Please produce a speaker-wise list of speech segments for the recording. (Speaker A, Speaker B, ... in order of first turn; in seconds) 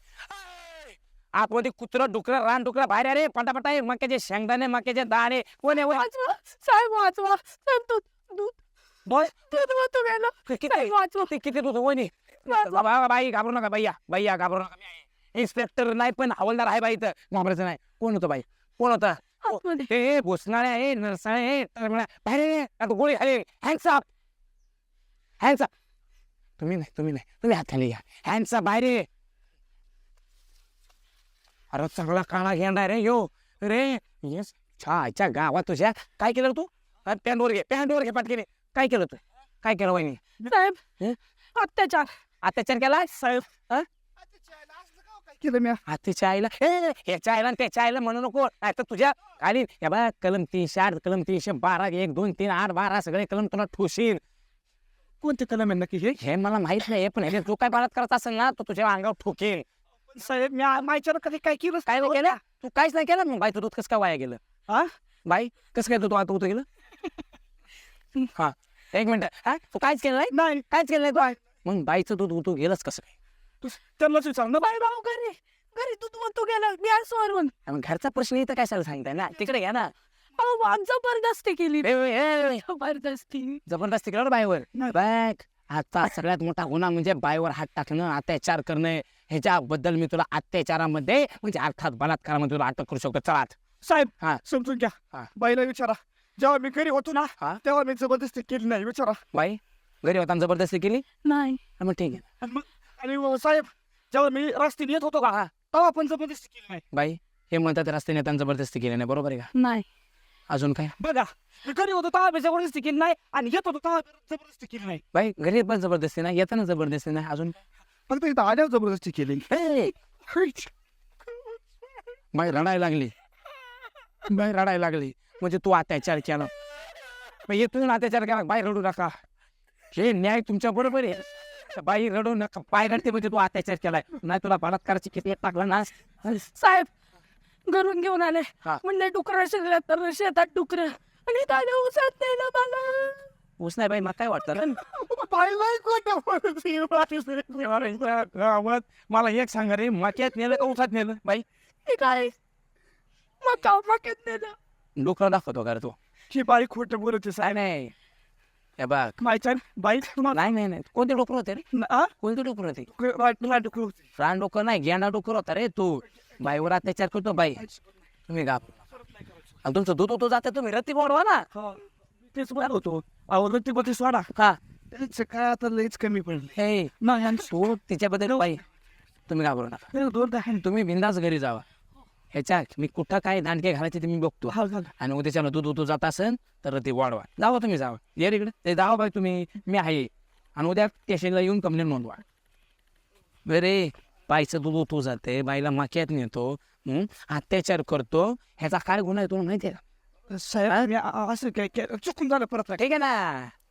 Speaker A: 0.6-6.0, 10.5-24.0, 25.4-25.7, 26.6-29.1, 31.7-40.2, 42.4-43.1, 45.9-54.2, 56.2-59.6, 61.9-64.4, 65.2-66.7, 68.3-73.1, 77.7-79.9, 81.8-82.6, 83.7-93.5, 99.3-101.0, 101.8-102.2, 106.9-109.5, 110.5-110.9, 115.1-117.6, 119.5-119.9, 122.3-123.1, 124.3-126.5, 127.5-129.2, 129.9-136.4, 143.6-144.8, 147.4-151.4, 155.0-155.9, 157.4-157.9, 158.8-159.2, 160.3-161.6, 162.2-162.9, 164.2-167.6, 168.3-168.7, 169.6-171.4, 176.6-178.6, 179.3-179.9, 180.6-181.6, 182.3-192.2, 193.4-199.8, 202.8-203.5
Speaker B: 5.7-8.6, 9.3-11.3, 12.5-12.8, 19.4-19.9, 40.5-40.8, 41.5-42.1, 74.6-77.5, 80.4-81.9, 82.5-83.6, 101.2-101.6, 109.5-109.8, 136.5-136.9, 137.7-143.3, 151.8-152.3, 153.4-154.6
Speaker C: 43.1-43.5, 44.4-45.8, 55.2-56.2, 60.1-62.4, 70.3-70.7, 73.6-74.7, 84.7-85.0, 93.8-99.2, 102.4-106.8, 111.0-115.0, 118.1-119.5, 120.3-120.7, 144.7-147.6, 156.3-157.6, 159.2-160.5, 161.7-162.1, 162.9-164.0, 171.5-174.3, 174.9-177.5, 179.9-180.6, 184.5-184.9, 200.3-202.8